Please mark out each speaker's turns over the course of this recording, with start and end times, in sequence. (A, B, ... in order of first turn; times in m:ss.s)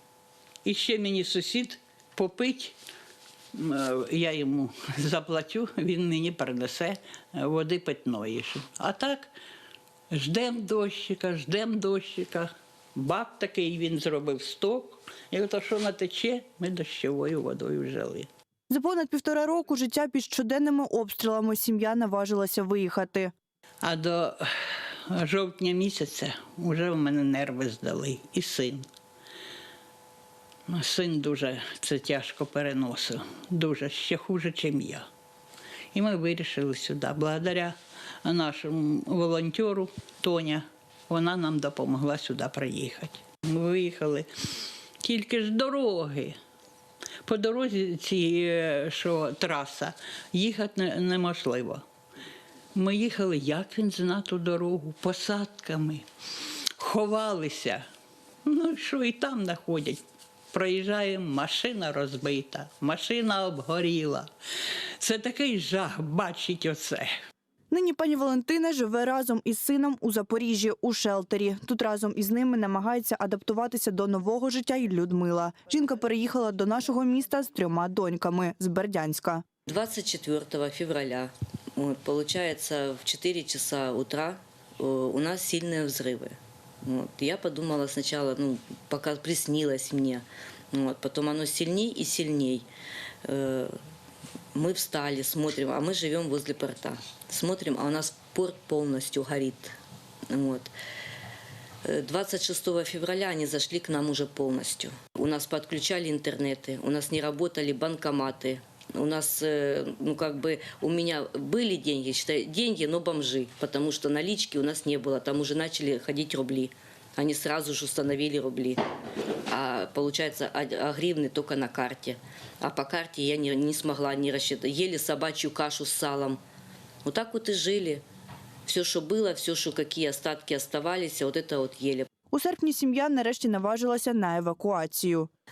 0:00.6-0:02.8 A
0:03.5-0:09.3 A
0:10.1-0:18.3 A
0:18.7-0:23.3 B
0:23.8-0:24.4 A
0:25.1-0:28.8 A
0:30.7-0:35.0 A
0:35.9-0:44.3 A
0:45.0-0:46.4 A
0:47.2-0:51.8 A
0:52.7-0:56.0 A
0:56.8-0:57.8 A
0:58.4-1:04.3 A
1:05.0-1:07.1 A
1:07.7-1:19.4 B
1:19.7-1:32.6 C
1:33.2-1:33.8 C
1:34.5-1:39.7 C
1:40.3-1:40.7 C
1:41.8-1:58.8 C
1:59.5-2:06.4 C
2:07.0-2:08.0 C
2:08.6-2:12.1 C
2:12.3-2:15.3 B